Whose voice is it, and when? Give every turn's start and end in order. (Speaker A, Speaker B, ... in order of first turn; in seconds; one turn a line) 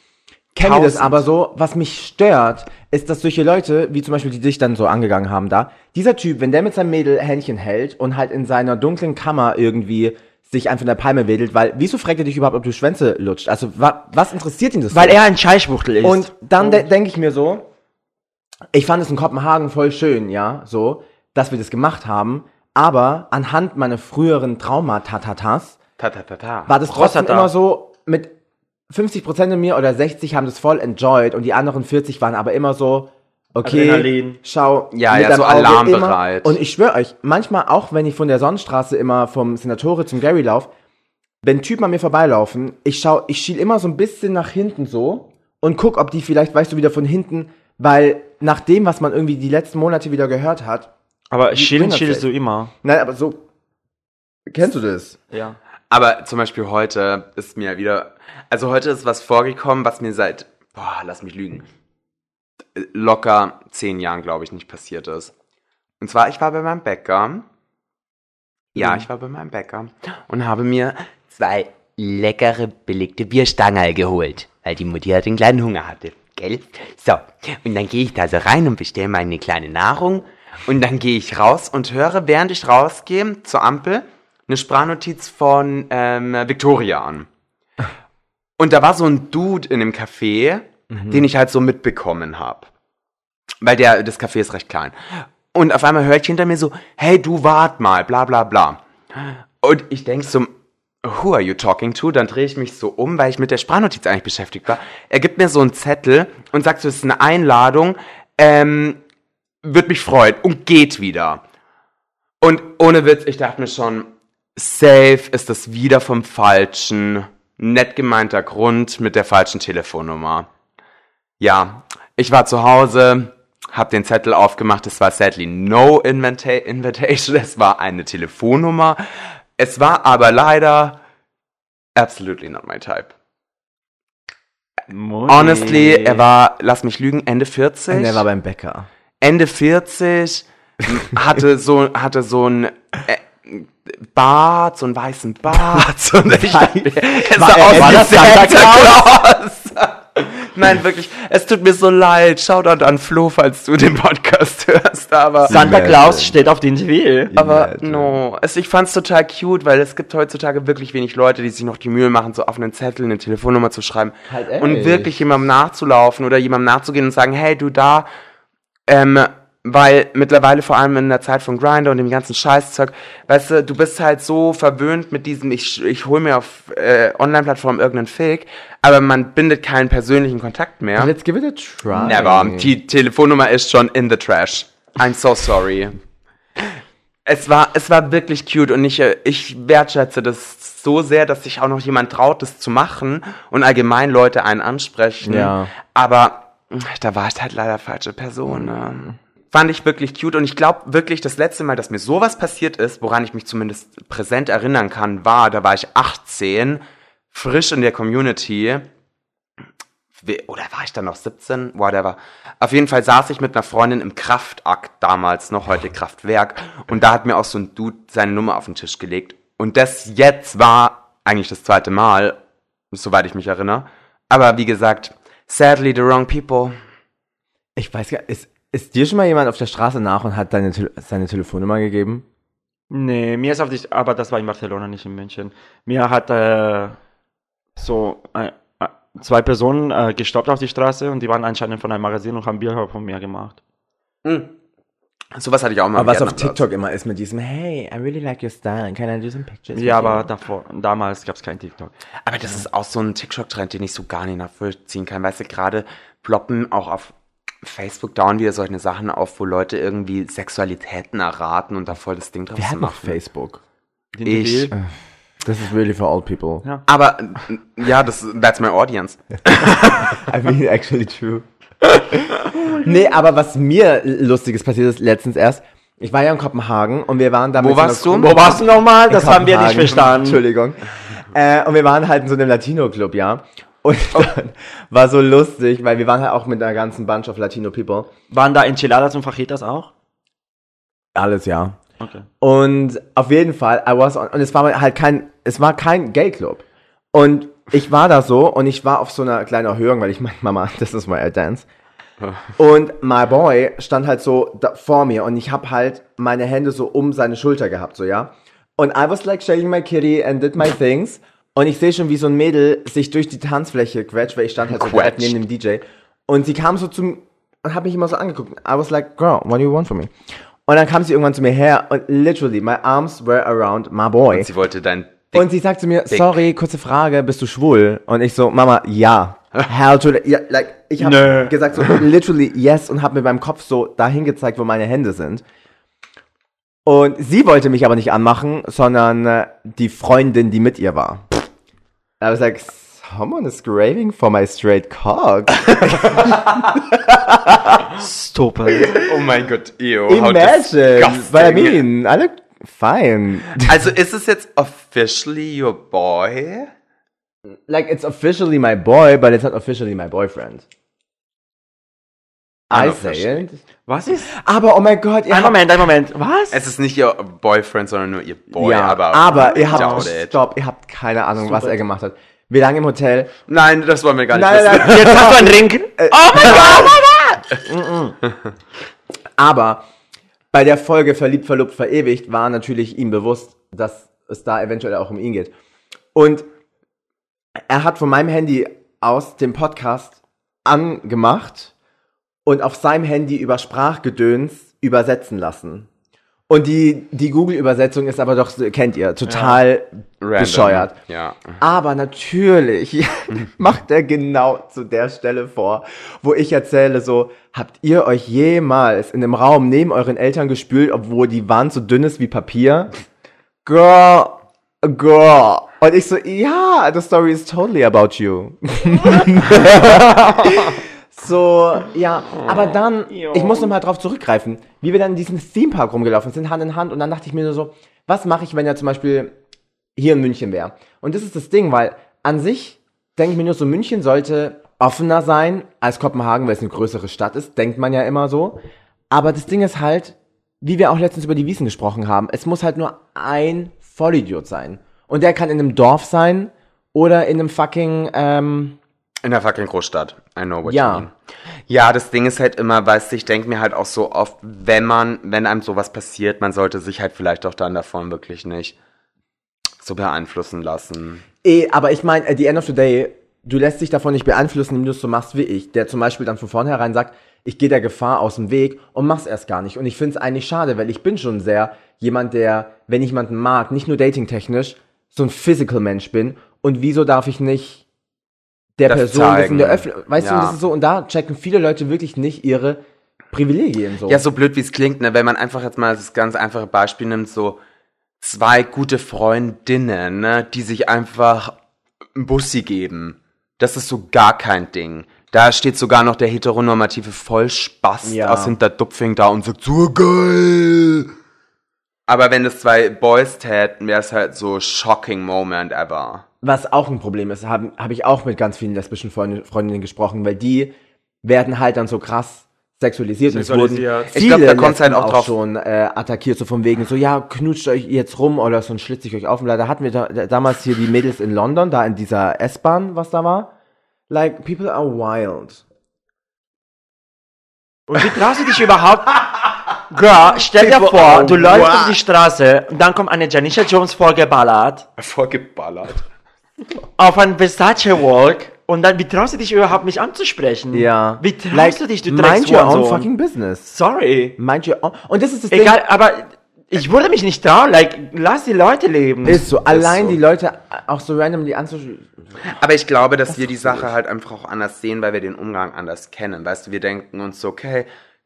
Speaker A: 0.5-15.2
Speaker B: 0.6-1.2
Speaker C: 14.9-16.8
Speaker A: 16.0-17.7
Speaker A: 18.7-25.8
Speaker B: 26.0-26.7
Speaker A: 26.7-28.3
Speaker C: 26.9-27.5
Speaker A: 28.9-40.7
Speaker C: 33.6-34.4
Speaker B: 34.9-36.6
Speaker A: 41.4-50.9
Speaker C: 51.3-52.7
Speaker A: 51.5-52.3
Speaker A: 52.8-53.4
Speaker A: 54.5-55.2
Speaker C: 55.3-55.6
Speaker B: 55.9-61.7
Speaker B: 62.7-65.3
Speaker B: 66.0-67.5
Speaker B: 68.7-87.3
Speaker B: 88.6-92.7
Speaker A: 90.9-91.2
Speaker B: 93.6-100.5
Speaker B: 101.0-109.0
Speaker B: 109.6-111.4
Speaker B: 112.4-120.5
Speaker B: 121.4-129.0
Speaker B: 129.6-131.0
Speaker B: 131.9-133.1
Speaker C: 134.9-136.2
Speaker B: 135.3-138.2
Speaker A: 137.9-138.9
Speaker B: 139.2-155.6
Speaker A: 145.6-149.0
Speaker C: 147.6-148.9
Speaker A: 155.4-156.3
Speaker C: 155.5-157.3
Speaker A: 157.3-158.1
Speaker B: 157.3-168.1
Speaker A: 164.3-165.1
Speaker B: 168.9-181.1
Speaker A: 180.9-182.7
Speaker B: 181.9-185.9
Speaker B: 186.6-208.9
Speaker A: 195.2-195.7
Speaker B: 210.2-222.4
Speaker B: 222.9-226.7
Speaker A: 227.8-232.2
Speaker C: 232.9-237.0
Speaker C: 237.8-243.6
Speaker B: 244.2-244.5
Speaker B: 245.3-246.6
Speaker A: 245.9-250.3
Speaker C: 249.8-251.9
Speaker B: 252.2-263.2
Speaker A: 262.6-263.6
Speaker C: 264.1-264.7
Speaker B: 264.2-264.7
Speaker A: 265.4-266.6
Speaker B: 266.9-270.2
Speaker A: 270.0-288.1
Speaker B: 277.6-278.5
Speaker C: 278.1-280.4
Speaker C: 288.3-289.9
Speaker A: 291.1-291.8
Speaker C: 292.0-292.2
Speaker A: 292.4-301.6
Speaker A: 302.6-320.1
Speaker B: 314.7-315.4
Speaker A: 320.7-324.5
Speaker B: 324.3-325.5
Speaker A: 325.3-335.4
Speaker B: 326.1-326.3
Speaker C: 331.0-331.5
Speaker A: 336.8-341.3
Speaker A: 342.2-346.4
Speaker B: 346.0-346.7
Speaker A: 347.3-347.8
Speaker C: 347.9-349.0
Speaker B: 348.8-351.8
Speaker A: 350.1-353.7
Speaker B: 353.5-356.7
Speaker A: 357.7-360.6
Speaker B: 362.7-363.4
Speaker A: 362.7-363.6
Speaker C: 363.9-364.3
Speaker A: 364.3-365.7
Speaker C: 365.3-366.6
Speaker B: 366.5-370.3
Speaker A: 368.5-373.3
Speaker C: 369.6-370.1
Speaker B: 373.5-375.4
Speaker A: 374.3-378.2
Speaker C: 374.8-377.2
Speaker A: 379.4-379.8
Speaker A: 380.5-385.5
Speaker A: 386.1-386.5
Speaker A: 387.7-391.7
Speaker A: 392.4-395.9
Speaker A: 396.5-400.9
Speaker C: 399.2-399.6
Speaker B: 400.2-401.6
Speaker A: 401.6-412.9
Speaker A: 413.6-429.3
Speaker C: 423.1-423.7
Speaker A: 429.9-448.8
Speaker B: 449.2-451.1
Speaker A: 450.6-451.1
Speaker B: 451.7-458.8
Speaker B: 459.8-461.2
Speaker A: 461.4-477.8
Speaker A: 478.8-482.8
Speaker B: 478.9-480.6
Speaker A: 483.3-484.2
Speaker B: 484.1-487.6
Speaker B: 488.2-491.5
Speaker B: 492.1-501.1
Speaker A: 498.0-498.6
Speaker B: 502.1-506.2
Speaker A: 506.4-523.5
Speaker C: 513.3-514.2
Speaker B: 514.1-515.3
Speaker A: 524.1-525.6
Speaker C: 527.9-534.9
Speaker A: 530.6-532.0
Speaker B: 530.9-531.4
Speaker B: 535.0-536.0
Speaker C: 537.0-543.1
Speaker A: 540.7-543.7
Speaker C: 543.7-544.4
Speaker A: 544.4-545.8
Speaker C: 545.5-549.5
Speaker A: 549.2-552.1
Speaker B: 549.7-550.2
Speaker B: 552.4-557.9